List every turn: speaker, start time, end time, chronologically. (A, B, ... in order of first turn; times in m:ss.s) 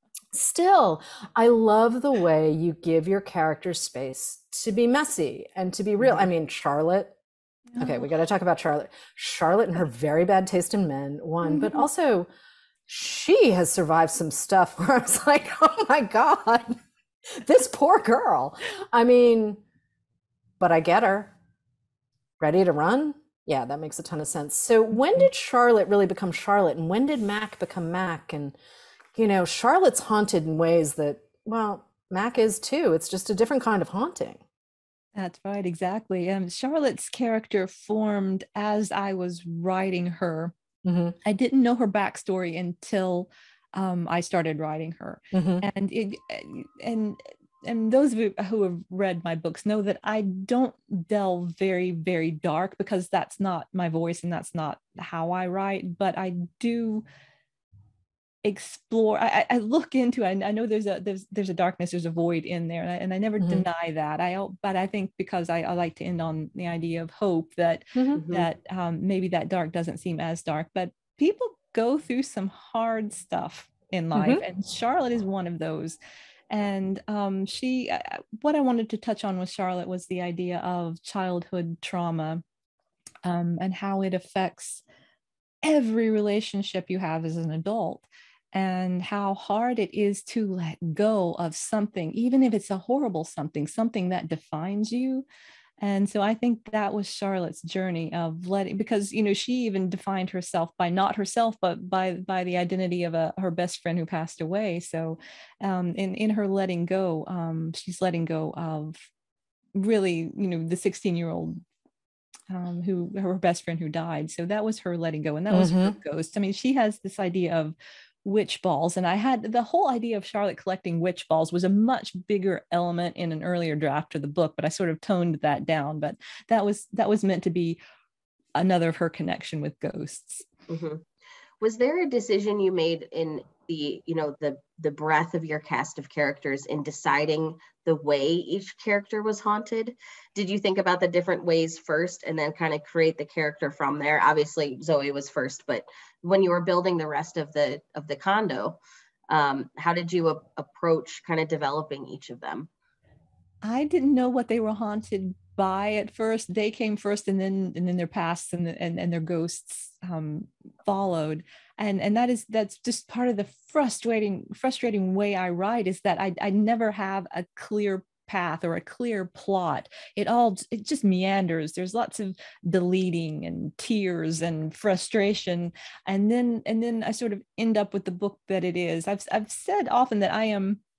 0:00.3-0:07.1 A
0:07.8-0:12.3 A
0:11.4-0:11.8 B
0:12.9-0:16.7 A
0:17.4-0:19.6 A
0:20.6-0:21.3 A
0:22.4-0:28.5 A
0:29.1-0:34.4 A
0:35.2-0:40.5 B
0:40.8-0:41.2 A
0:41.2-0:57.0 B
0:45.3-0:45.6 A
0:58.4-1:16.0 B
1:07.9-1:08.2 A
1:08.2-1:08.5 C
1:14.1-1:14.4 A
1:16.5-1:22.4 B
1:23.2-1:24.8 B
1:25.6-1:35.2 B
1:35.8-1:49.0 B
1:49.7-1:51.6 B
1:52.5-2:07.8 B
1:55.5-1:55.9 A
2:08.6-2:10.4 B
2:10.7-2:11.0 C
2:11.6-2:28.8 C
2:29.3-2:32.7 C
2:33.6-3:00.8 B